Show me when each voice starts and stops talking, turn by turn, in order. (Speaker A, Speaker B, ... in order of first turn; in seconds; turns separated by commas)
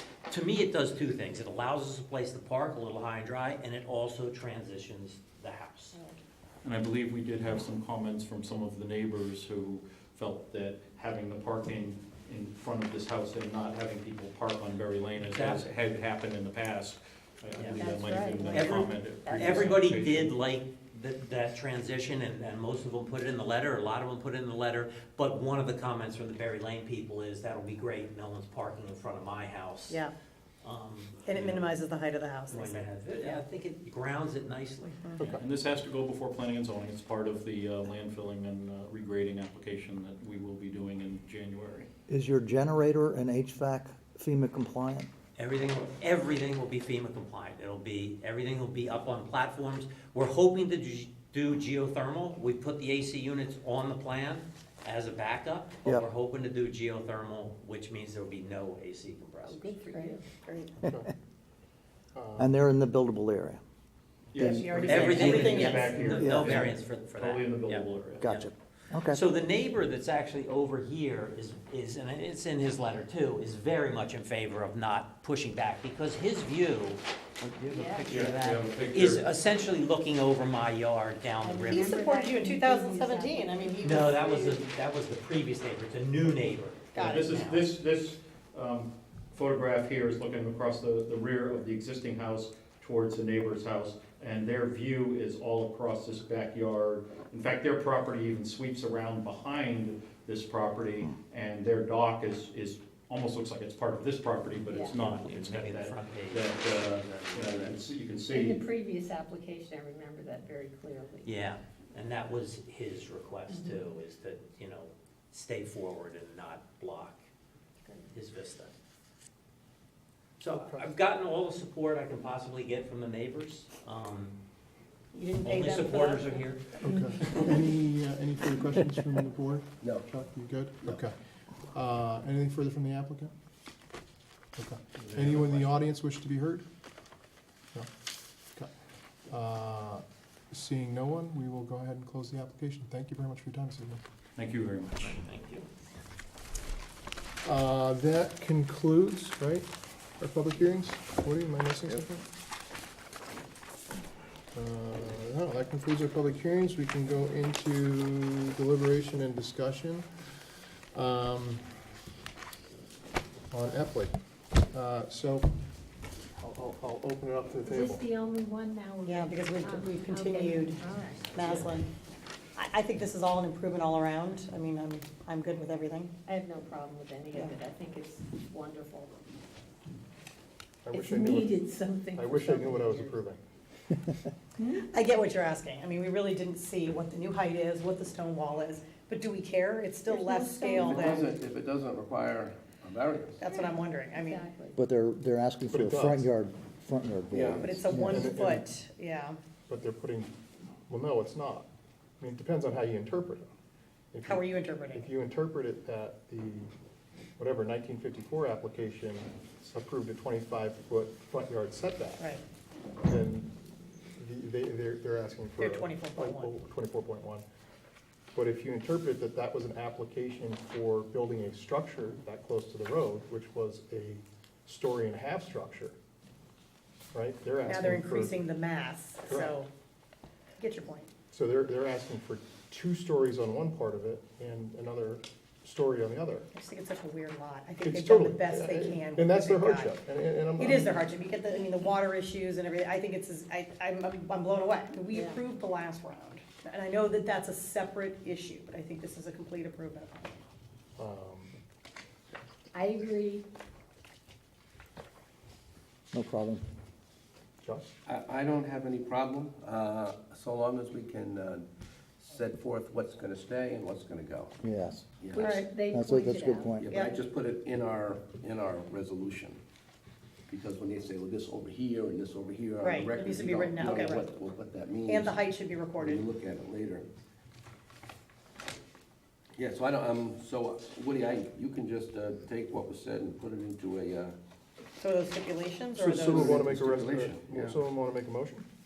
Speaker A: 0.3-5.9, Speaker B: 5.9-6.2, Speaker C: 6.6-20.4, Speaker A: 15.3-15.6, Speaker A: 17.6-17.8, Speaker B: 17.8-19.7, Speaker A: 18.4-30.0, Speaker A: 30.6-31.7, Speaker D: 31.2-33.4, Speaker A: 32.5-35.0, Speaker D: 34.9-35.2, Speaker C: 35.2-41.9, Speaker E: 42.1-45.1, Speaker A: 45.4-59.7, Speaker B: 59.4-60.5, Speaker F: 62.1-62.5, Speaker E: 62.4-63.6, Speaker C: 64.3-68.2, Speaker E: 64.4-64.9, Speaker D: 64.6-66.0, Speaker F: 64.8-65.5, Speaker A: 64.9-68.5, Speaker E: 66.2-66.7, Speaker E: 68.2-69.2, Speaker A: 69.0-82.0, Speaker B: 77.7-78.1, Speaker C: 78.0-79.2, Speaker B: 81.4-84.0, Speaker D: 81.7-84.6, Speaker A: 83.8-87.6, Speaker D: 86.9-87.3, Speaker C: 87.0-108.7, Speaker B: 104.7-105.0, Speaker A: 104.9-107.8, Speaker B: 108.3-111.4, Speaker A: 111.2-117.2, Speaker B: 113.5-113.8, Speaker A: 118.1-118.7, Speaker A: 120.4-124.3, Speaker F: 120.5-120.8, Speaker D: 125.1-126.2, Speaker A: 125.4-127.4, Speaker F: 126.8-131.1, Speaker B: 126.9-127.4, Speaker G: 129.8-130.1, Speaker F: 131.7-133.3, Speaker F: 134.6-136.6, Speaker F: 139.3-144.0, Speaker C: 144.3-145.2, Speaker A: 145.0-145.7, Speaker F: 147.4-149.7, Speaker F: 150.2-152.2, Speaker F: 154.5-160.1, Speaker F: 160.9-161.7, Speaker F: 163.5-164.2, Speaker F: 164.7-165.5, Speaker F: 166.4-168.0, Speaker B: 167.6-171.4, Speaker D: 169.0-170.8, Speaker D: 171.3-171.9, Speaker A: 171.3-171.7, Speaker D: 172.5-176.1, Speaker B: 176.2-179.1, Speaker F: 180.8-181.6, Speaker B: 180.9-183.2, Speaker F: 182.1-183.4, Speaker B: 184.6-184.8, Speaker D: 184.9-191.2, Speaker B: 190.1-191.2, Speaker G: 190.7-193.4, Speaker D: 193.4-194.4, Speaker B: 193.4-194.8, Speaker E: 194.7-198.4, Speaker F: 195.7-196.3, Speaker G: 197.3-197.8, Speaker D: 197.6-199.4, Speaker F: 198.0-198.6, Speaker F: 199.7-200.3, Speaker F: 200.9-201.7, Speaker F: 202.2-203.5, Speaker F: 204.1-206.7, Speaker D: 204.2-205.1, Speaker F: 207.4-212.3, Speaker D: 212.2-212.4, Speaker F: 213.0-213.5, Speaker F: 214.2-217.4, Speaker D: 215.6-216.5, Speaker F: 218.3-225.9, Speaker F: 227.1-228.3, Speaker D: 227.6-229.7, Speaker F: 229.2-229.5, Speaker D: 230.6-231.1, Speaker F: 231.3-236.5, Speaker D: 236.5-240.0, Speaker F: 237.8-240.9, Speaker D: 240.5-250.2, Speaker B: 245.1-245.4, Speaker F: 251.0-251.5, Speaker B: 252.7-253.4, Speaker E: 256.1-256.6, Speaker G: 258.1-261.7, Speaker G: 262.2-264.5, Speaker E: 264.6-265.1, Speaker G: 265.2-265.6, Speaker B: 265.3-266.9, Speaker D: 265.4-265.7, Speaker E: 265.9-266.9, Speaker G: 266.8-269.6, Speaker D: 266.9-267.2, Speaker G: 270.5-277.1, Speaker D: 272.8-274.3, Speaker D: 275.0-276.2, Speaker G: 279.6-284.3, Speaker D: 285.0-286.4, Speaker G: 286.0-287.8, Speaker F: 286.0-288.6